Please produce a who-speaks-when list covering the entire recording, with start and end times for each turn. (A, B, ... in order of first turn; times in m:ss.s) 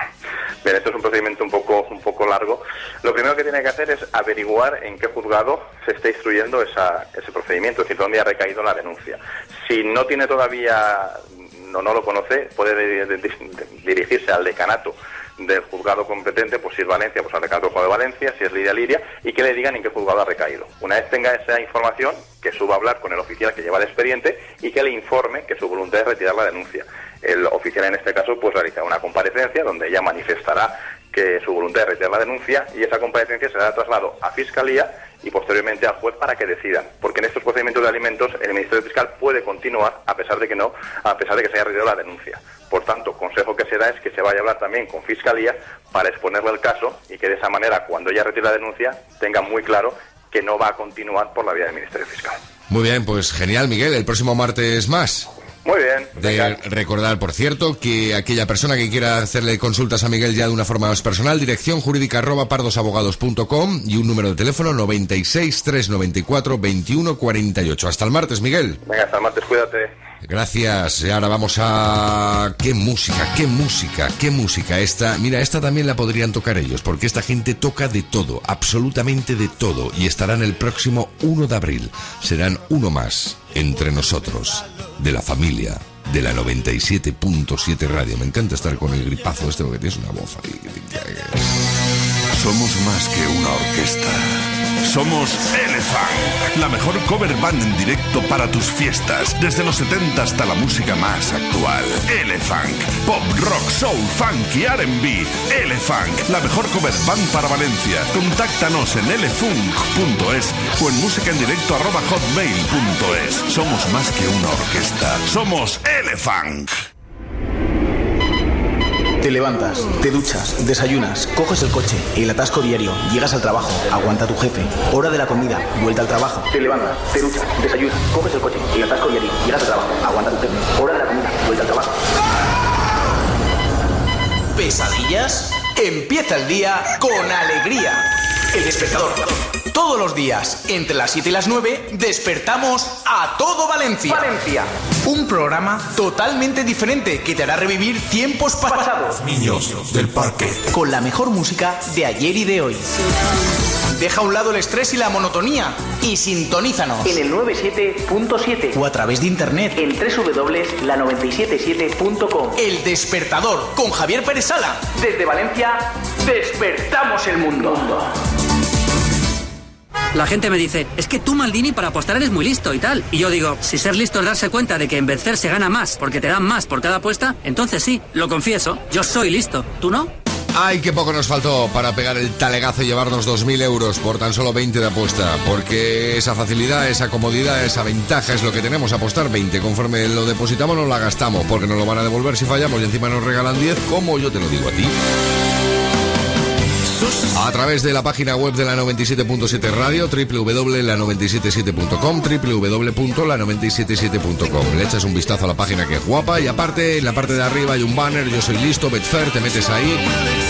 0:00.6-0:52.4 A
0:52.7-0:55.3 B
0:55.6-0:56.6 A
0:56.2-1:08.8 B
1:08.9-1:09.9 A
1:10.2-1:31.5 B
1:32.4-1:34.2 C
1:34.9-1:56.7 C
1:59.2-2:11.9 D
2:14.6-2:29.3 D
2:30.1-2:30.4 C
2:30.7-2:32.9 D
2:33.9-2:48.1 D
2:50.1-3:00.1 E
3:00.5-3:15.0 B
3:17.3-3:30.1 B